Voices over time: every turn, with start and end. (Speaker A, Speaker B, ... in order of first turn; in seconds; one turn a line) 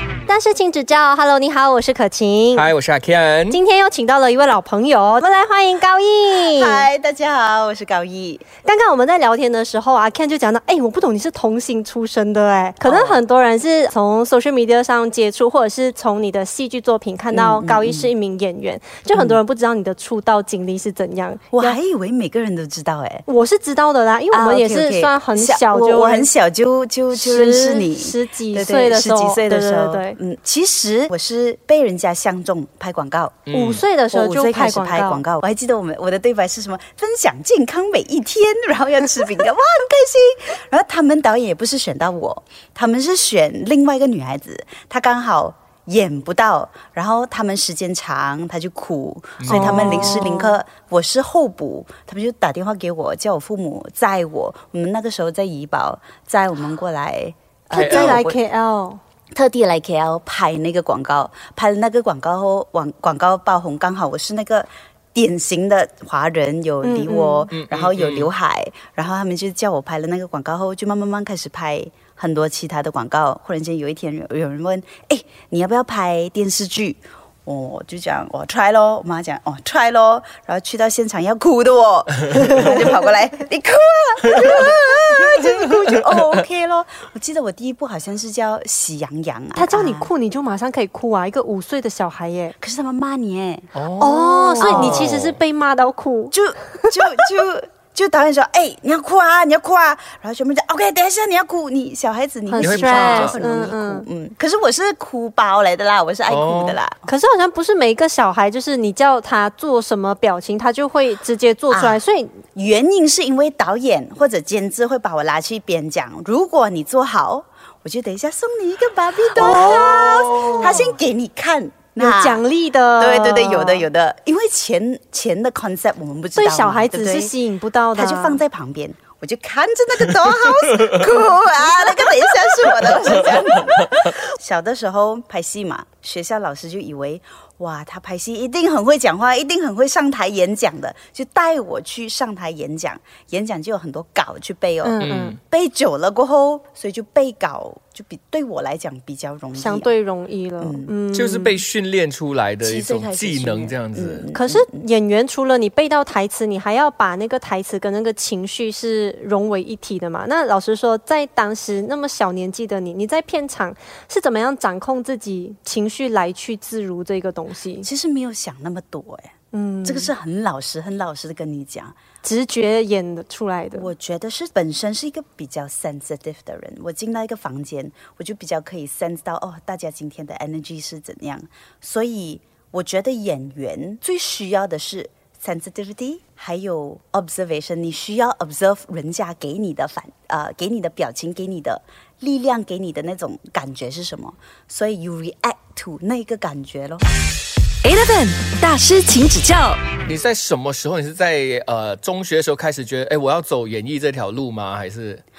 Speaker A: 0.3-2.7
Speaker B: 2.5-3.6
Speaker A: 3.5-6.9
Speaker C: 6.5-8.5
Speaker A: 8.6-21.8
Speaker C: 12.8-13.2
Speaker C: 17.3-18.1
Speaker C: 19.1-19.4
Speaker C: 21.5-23.3
Speaker A: 23.3-26.3
Speaker C: 24.3-33.5
Speaker A: 27.1-30.2
Speaker B: 33.5-33.9
Speaker A: 33.5-35.2
Speaker C: 34.1-58.4
Speaker B: 49.4-50.3
Speaker A: 49.5-50.6
Speaker A: 57.7-59.0
Speaker B: 57.7-58.2
Speaker C: 59.4-90.1
Speaker A: 66.8-67.5
Speaker B: 67.5-68.3
Speaker A: 89.5-92.5
Speaker C: 92.6-93.7
Speaker B: 93.8-95.4
Speaker A: 94.0-97.1
Speaker C: 94.6-95.1
Speaker C: 96.3-107.0
Speaker A: 102.5-104.1
Speaker B: 102.6-103.4
Speaker B: 106.3-106.8
Speaker A: 107.1-112.4
Speaker C: 111.7-112.0
Speaker C: 112.5-122.4
Speaker A: 119.4-120.7
Speaker B: 119.4-120.8
Speaker A: 122.0-123.9
Speaker C: 123.0-127.3
Speaker A: 126.4-128.4
Speaker C: 128.0-149.9
Speaker A: 144.8-145.4
Speaker B: 145.0-145.4
Speaker A: 149.6-151.6
Speaker C: 150.6-150.9
Speaker B: 151.1-154.3
Speaker C: 152.6-154.9
Speaker A: 154.3-167.9
Speaker C: 167.8-172.0
Speaker A: 169.5-170.1
Speaker A: 172.2-173.9
Speaker C: 173.7-197.1
Speaker D: 197.8-199.8
Speaker B: 200.1-205.2